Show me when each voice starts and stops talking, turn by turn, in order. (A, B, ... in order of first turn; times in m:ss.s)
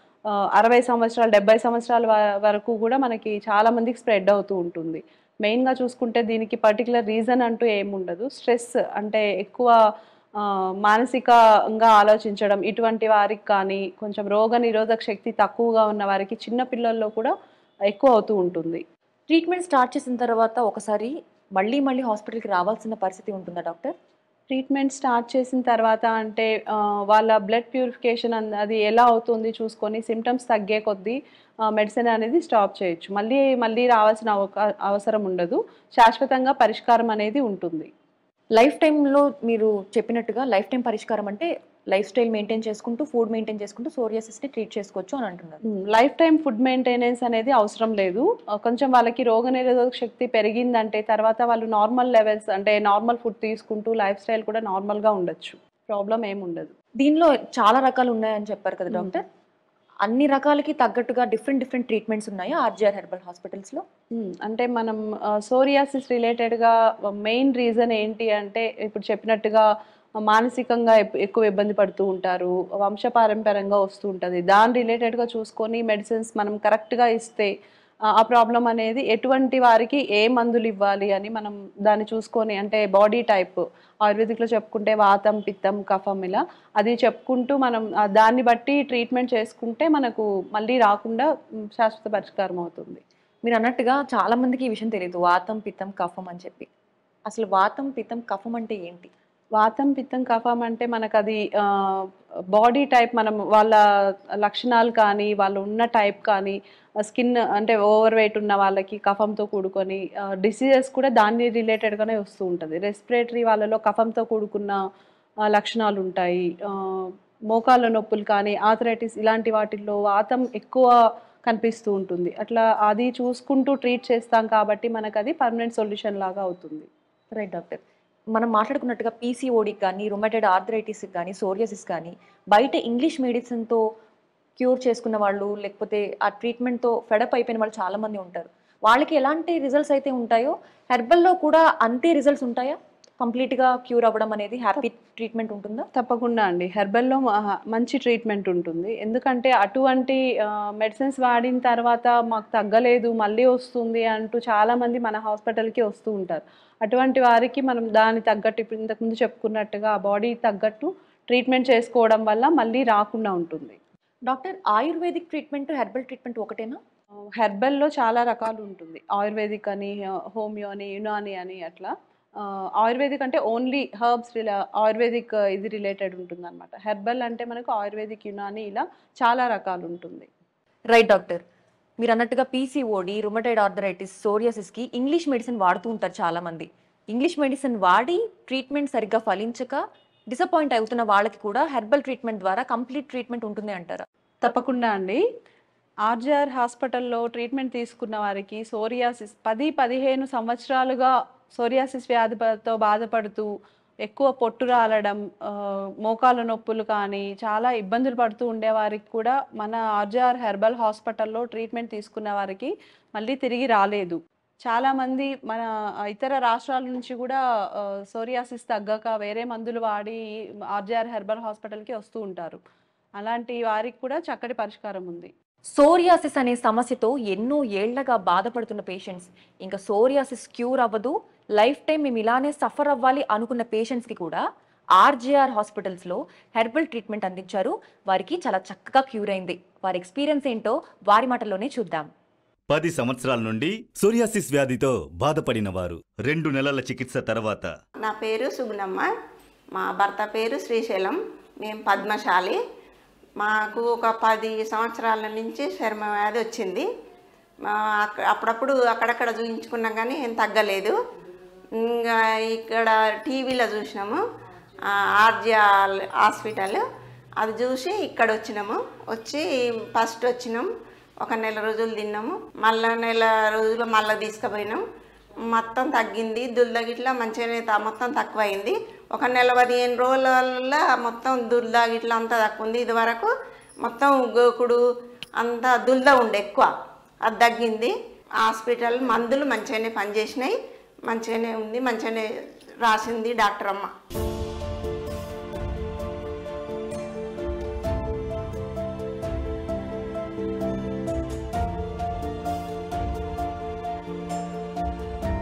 0:00.6-0:09.7 A
0:10.4-0:17.3 A
0:17.9-0:18.8 A
0:19.3-0:23.9 B
0:24.5-0:31.2 A
0:31.7-0:37.9 A
0:38.6-0:45.6 B
0:45.7-0:56.7 A
0:57.0-0:59.2 B
1:00.0-1:03.8 B
1:04.1-1:09.6 A
1:10.2-1:17.5 A
1:18.1-1:33.0 A
1:33.4-1:36.7 B
1:37.3-1:39.1 B
1:39.6-1:43.8 A
1:44.4-1:54.8 A
1:55.5-2:00.9 A
2:01.4-2:06.9 A
2:07.3-2:07.8 B
2:08.3-2:13.8 B
2:14.6-2:25.8 B
2:25.9-2:43.8 A
2:44.3-2:46.8 B
2:47.4-3:00.3 A
3:00.9-3:01.4 B
3:02.0-3:14.0 B
3:14.4-3:15.2 A
3:16.1-3:23.5 A
3:24.0-3:40.2 A
3:40.7-3:42.6 A
3:43.2-3:45.3 A
3:45.7-3:54.4 B
3:55.0-4:02.1 B
4:02.7-4:07.7 C
4:08.0-4:09.1 D
4:09.7-4:12.6 D
4:13.4-4:16.9 D
4:17.7-4:21.0 D
4:21.8-4:24.2 D
4:24.9-4:26.8 D
4:27.4-4:30.7 D
4:31.2-4:34.8 D
4:35.5-4:43.3 D
4:43.8-4:44.8 D
4:45.4-4:46.7 D
4:47.2-4:52.2 D
4:52.8-4:53.9 D